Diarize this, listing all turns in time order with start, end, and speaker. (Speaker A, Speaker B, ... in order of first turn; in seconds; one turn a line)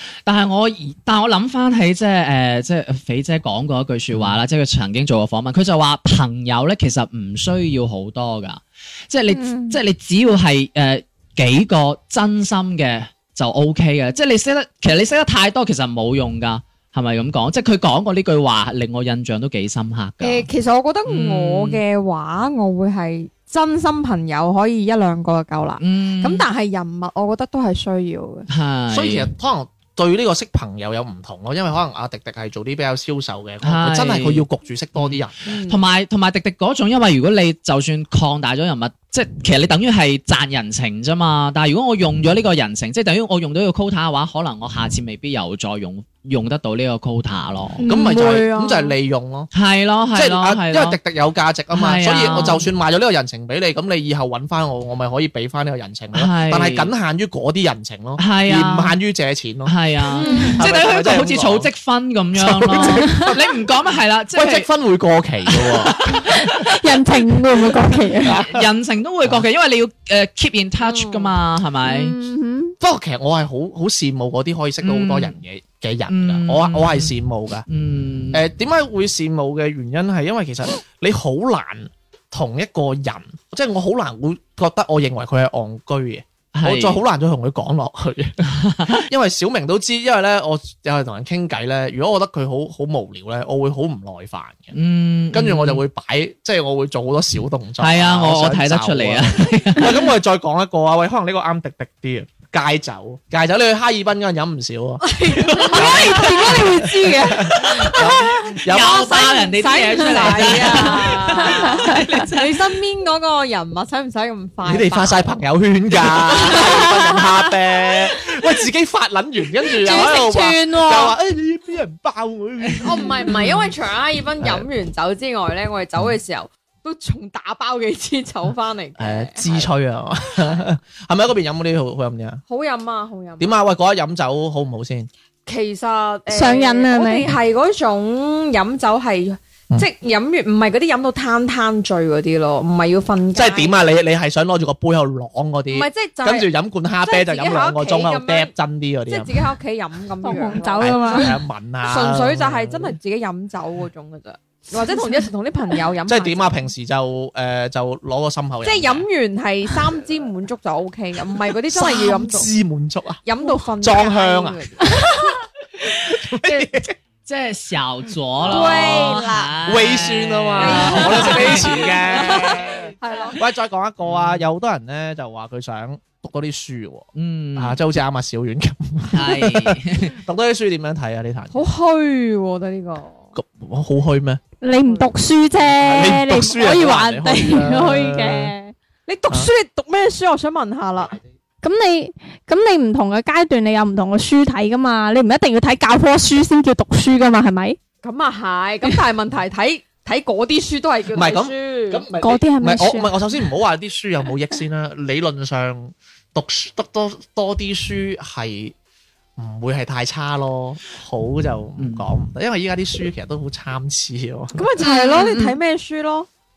Speaker A: 0.3-20.5
Speaker B: 4.1-4.4
Speaker C: 9.3-9.8
Speaker D: 20.2-28.5
Speaker A: 21.1-21.8
Speaker A: 25.8-26.5
Speaker A: 28.5-29.3
Speaker B: 28.9-35.4
Speaker A: 33.6-47.8
Speaker D: 35.5-35.8
Speaker D: 47.8-48.9
Speaker B: 47.9-49.5
Speaker C: 47.9-48.4
Speaker A: 49.5-51.0
Speaker B: 50.1-59.8
Speaker A: 51.7-52.7
Speaker A: 56.1-56.9
Speaker A: 58.2-59.0
Speaker A: 59.7-64.7
Speaker D: 60.1-60.6
Speaker C: 60.2-60.6
Speaker B: 60.5-61.7
Speaker B: 62.4-63.5
Speaker C: 62.9-63.3
Speaker B: 64.3-66.2
Speaker A: 65.5-66.6
Speaker C: 66.2-68.4
Speaker B: 68.2-68.7
Speaker A: 68.2-72.2
Speaker D: 70.8-71.3
Speaker C: 71.8-72.8
Speaker B: 72.8-77.7
Speaker A: 74.8-75.3
Speaker A: 76.1-77.1
Speaker A: 77.7-78.4
Speaker B: 78.3-94.7
Speaker A: 86.5-87.0
Speaker A: 88.6-89.0
Speaker A: 94.7-95.8
Speaker B: 95.3-109.4
Speaker A: 97.8-100.0
Speaker D: 105.0-115.3
Speaker A: 105.5-106.3
Speaker A: 107.5-112.7
Speaker B: 110.1-110.8
Speaker B: 114.6-123.5
Speaker D: 116.1-117.5
Speaker D: 119.8-121.1
Speaker C: 120.4-121.0
Speaker D: 122.8-129.7
Speaker B: 124.4-124.7
Speaker B: 129.0-132.4
Speaker D: 132.5-133.6
Speaker B: 133.4-135.1
Speaker D: 135.5-143.7
Speaker C: 136.3-137.3
Speaker B: 143.3-149.4
Speaker D: 145.7-146.5
Speaker D: 147.0-148.5
Speaker D: 149.1-156.7
Speaker C: 150.2-151.3
Speaker B: 150.8-153.0
Speaker B: 156.1-159.1
Speaker D: 158.6-162.5
Speaker B: 161.7-163.2
Speaker D: 163.2-165.2
Speaker B: 163.8-164.8
Speaker C: 164.8-165.1
Speaker B: 166.1-167.0
Speaker A: 167.3-172.0
Speaker D: 168.4-169.6
Speaker B: 168.4-181.7
Speaker D: 170.6-173.4
Speaker A: 174.1-174.5
Speaker A: 177.2-177.8
Speaker A: 179.1-180.2
Speaker D: 181.5-183.3
Speaker B: 183.3-184.4
Speaker C: 184.6-188.7
Speaker D: 184.8-185.1
Speaker B: 185.6-188.5
Speaker D: 189.1-191.2
Speaker C: 191.6-197.8
Speaker D: 198.0-202.1
Speaker B: 201.1-208.8
Speaker C: 202.2-203.1
Speaker B: 209.4-214.7
Speaker A: 211.8-212.0
Speaker D: 214.5-216.3
Speaker C: 214.8-215.5